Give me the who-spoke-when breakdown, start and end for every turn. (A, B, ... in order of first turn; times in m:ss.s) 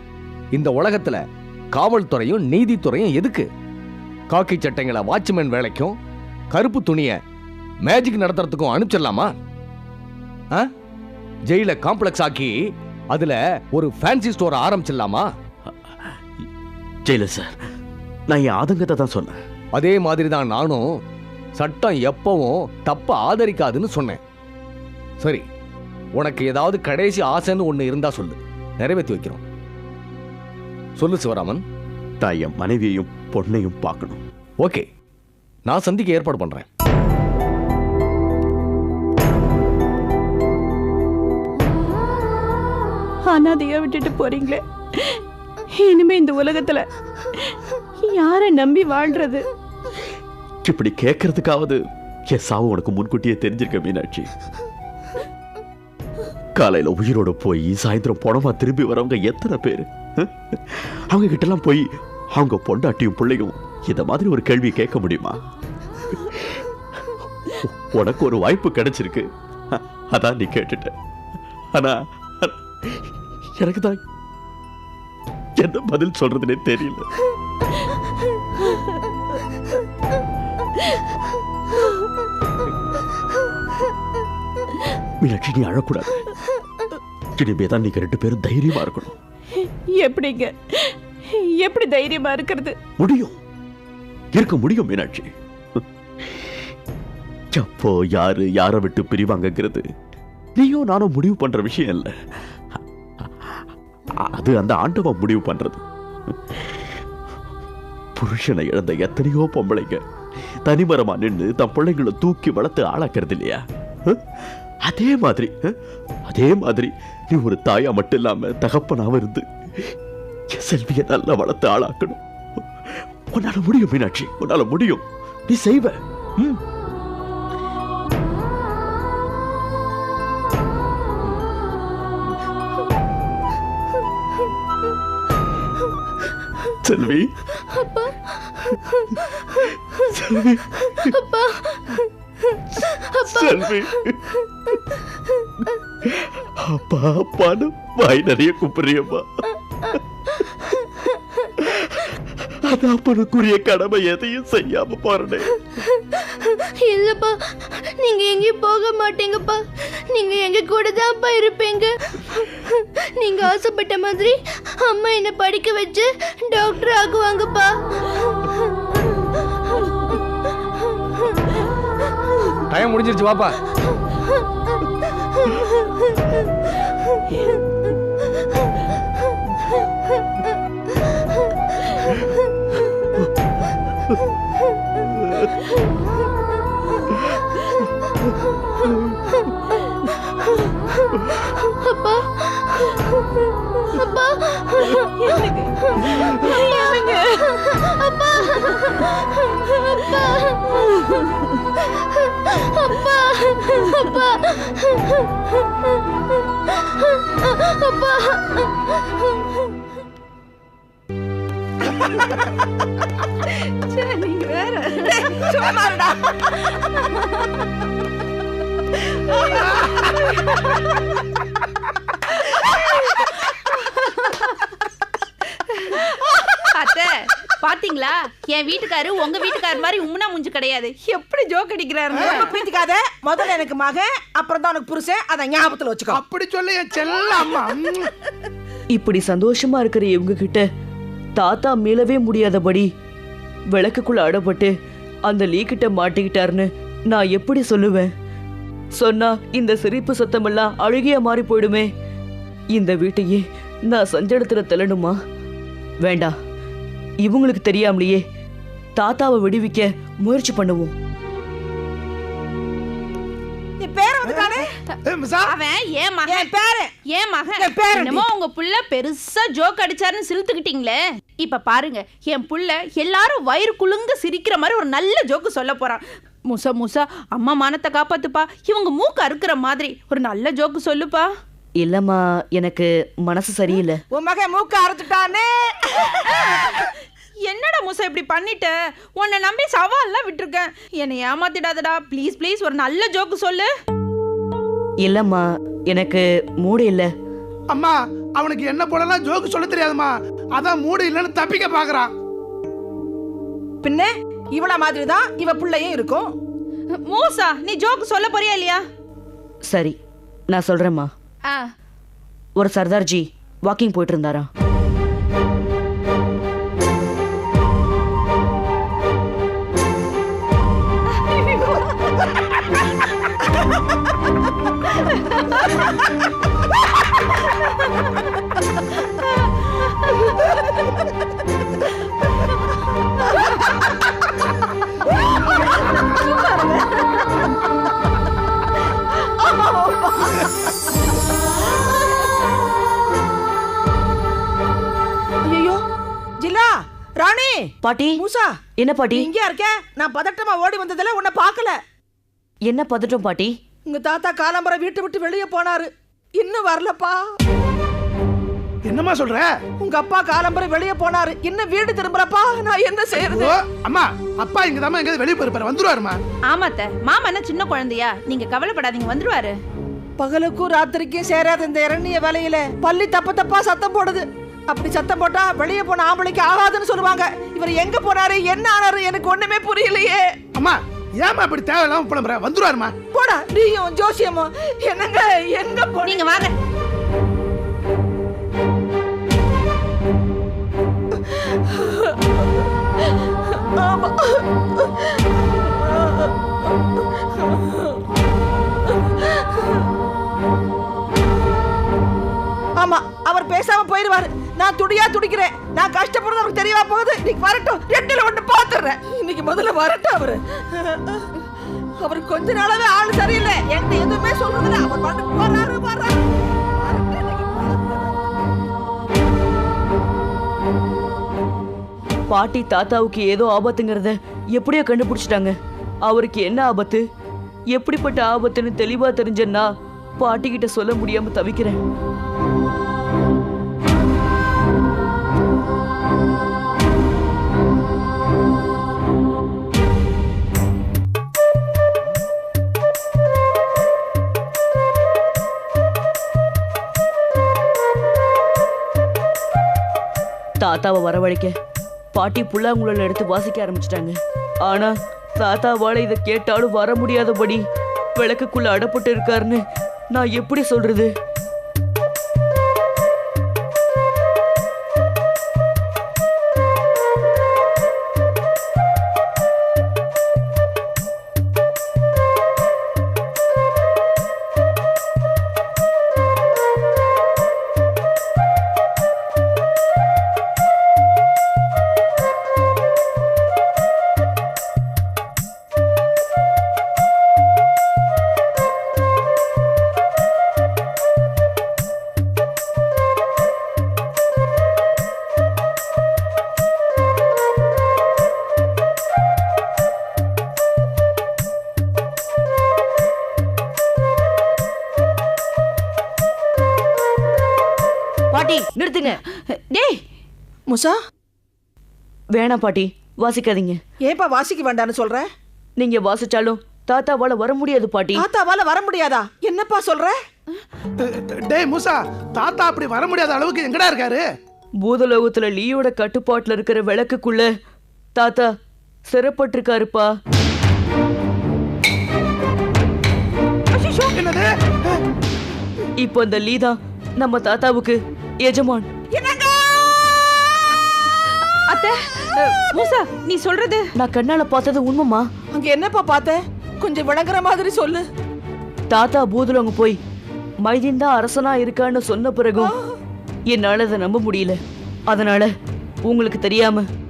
0:00.5-0:01.2 A
0:01.7-0:03.5 A
0:04.3-0:06.0 A
0:06.5-0:07.2 A
0:07.8-0:09.3 A
0:11.5-0:12.5 A
0:13.1-0:15.2 A
0:17.0-0:17.5 B
0:18.3-0:19.4 B
0:19.8-0:20.8 A
0:21.6-0:24.2 A
0:26.2-0:29.4 A
0:31.0-0:31.6 A
0:32.2-0:34.2 B
0:35.7-0:36.6 A
0:43.2-0:45.2 C
0:45.7-0:49.4 C
0:50.6-0:54.3 B
0:56.5-1:05.4 B
1:06.1-1:06.6 B
1:07.5-1:10.9 B
1:11.7-1:13.0 B
1:13.6-1:14.0 B
1:15.6-1:17.1 B
1:25.2-1:26.3 B
1:27.3-1:29.1 B
1:29.6-1:32.8 C
1:33.0-1:33.4 B
1:34.3-1:35.8 B
1:37.5-1:39.8 B
1:40.6-1:42.1 B
1:43.2-1:43.5 B
1:44.2-1:45.8 B
1:46.6-1:46.8 B
1:48.2-1:50.0 B
1:50.6-1:54.2 B
1:54.8-1:55.7 B
1:56.3-1:59.9 B
2:00.5-2:02.2 B
2:03.3-2:06.6 B
2:16.8-2:17.3 B
2:17.6-2:19.7 D
2:20.1-2:21.1 B
2:21.0-2:23.8 D
2:23.2-2:24.2 B
2:26.0-2:29.4 B
2:31.6-2:35.6 B
2:36.0-2:48.5 D
2:52.7-2:53.6 A
3:11.6-3:13.1 D
3:13.9-3:15.1 D
3:15.2-3:17.5 C
3:16.8-3:20.8 D
3:21.9-3:25.3 D
3:26.7-3:29.6 D
3:33.4-3:35.3 E
3:35.0-3:36.5 F
3:37.0-3:37.4 E
3:39.3-3:40.6 E
3:42.4-3:44.6 E
3:45.7-3:52.6 E
3:52.2-3:56.2 F
3:56.1-3:58.1 G
3:58.9-4:00.6 H
4:01.4-4:02.8 H
4:03.8-4:04.7 H
4:05.3-4:08.1 H
4:09.0-4:11.8 H
4:12.8-4:13.4 H
4:13.9-4:15.1 H
4:16.1-4:16.3 H
4:17.2-4:18.2 H
4:19.0-4:20.9 H
4:23.8-4:24.7 F
4:25.1-4:25.4 G
4:25.4-4:26.5 E
4:26.3-4:26.9 F
4:27.1-4:41.3 E
4:27.6-4:28.2 F
4:41.8-4:44.0 H
4:44.1-4:46.8 F
4:47.4-4:53.7 E
4:55.0-4:57.0 H
4:57.7-5:02.1 G
5:03.8-5:06.3 F
5:07.0-5:08.8 E
5:10.5-5:11.1 H
5:11.5-5:11.7 E
5:12.6-5:14.5 H
5:21.3-5:21.9 E
5:35.1-5:37.4 F
5:39.2-5:40.5 F
5:45.4-5:45.8 F
5:46.4-5:48.5 F
5:47.8-5:48.1 H
5:48.8-5:49.2 H
5:49.1-5:51.8 F
5:52.7-5:53.5 H
5:53.8-5:57.2 F
5:58.8-5:59.5 G
5:59.8-6:03.6 F
6:03.3-6:06.2 G
6:06.4-6:09.6 E
6:10.2-6:20.3 F
6:20.6-6:23.0 G
6:23.1-6:26.5 F
6:26.0-6:26.5 E
6:31.7-6:32.1 F
6:33.6-6:35.0 F
6:35.8-6:36.3 F
6:37.4-6:37.8 F
6:39.2-6:39.6 F
6:42.8-6:51.3 F
6:52.0-6:56.3 F
6:56.8-6:58.4 F
7:02.3-7:05.5 H
7:06.1-7:07.0 H
7:07.7-7:09.6 H
7:10.2-7:11.8 H
7:30.6-7:31.5 H
7:32.2-7:34.2 H
7:34.7-7:37.6 H
7:38.2-7:39.6 H
7:40.1-7:41.1 H
8:28.3-8:29.2 H
8:29.5-8:30.0 E
8:30.7-8:31.0 F
8:32.4-8:33.8 H
8:34.0-8:35.2 F
8:35.8-8:38.1 H
8:38.2-8:40.2 F
8:41.0-8:44.2 G
8:44.9-8:47.4 H
8:49.1-8:50.1 H
8:53.7-8:54.2 E
8:54.2-8:54.5 G
8:56.1-8:57.9 H
8:58.5-8:58.8 H
8:59.1-8:59.8 F
9:01.7-9:03.8 E
9:04.0-9:05.2 H
9:05.5-9:08.0 F
9:08.9-9:10.0 H
9:10.6-9:12.7 H
9:13.5-9:14.6 H
9:15.1-9:15.5 H
9:16.1-9:16.8 H